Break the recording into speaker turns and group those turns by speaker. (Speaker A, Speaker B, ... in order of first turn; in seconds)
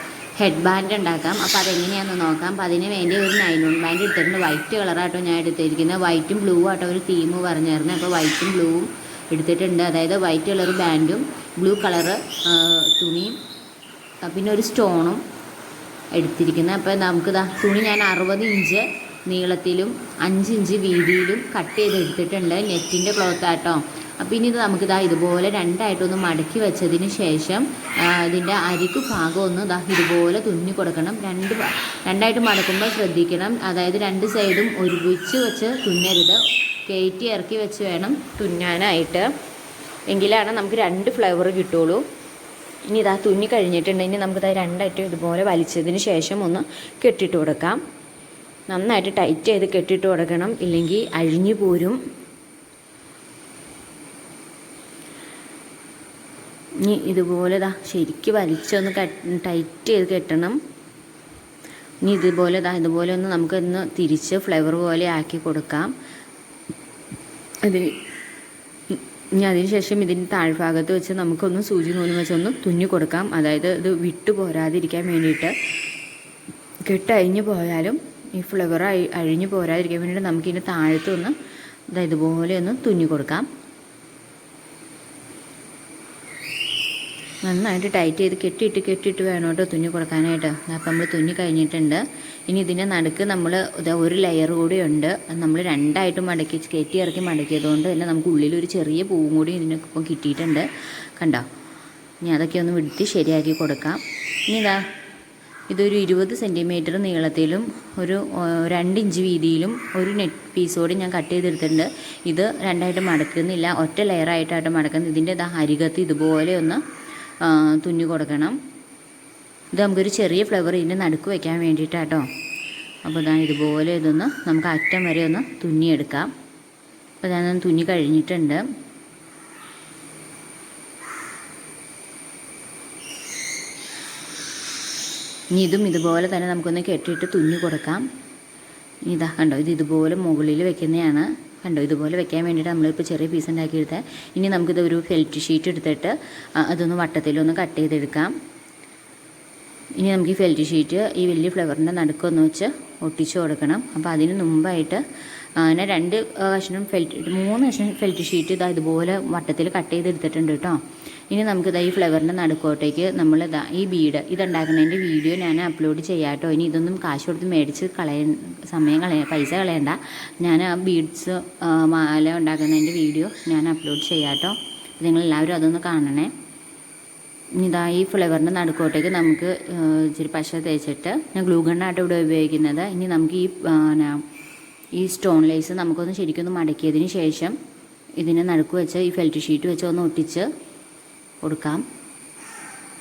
Speaker A: 0.4-13.4, 14.2-15.2, 16.1-39.3, 40.1-42.0, 42.9-47.8, 48.7-52.0, 56.8-60.6, 62.0-65.9, 67.6-67.9, 68.9-75.5, 76.8-81.3, 81.9-83.5, 87.4-101.5, 102.2-104.8, 105.7-116.8, 117.4-118.6, 119.7-122.2, 123.0-126.3, 127.2-128.6, 135.5-138.1, 139.1-148.3, 150.0-155.0, 155.6-176.3, 177.6-184.2, 184.9-187.6, 188.2-190.5, 191.4-191.8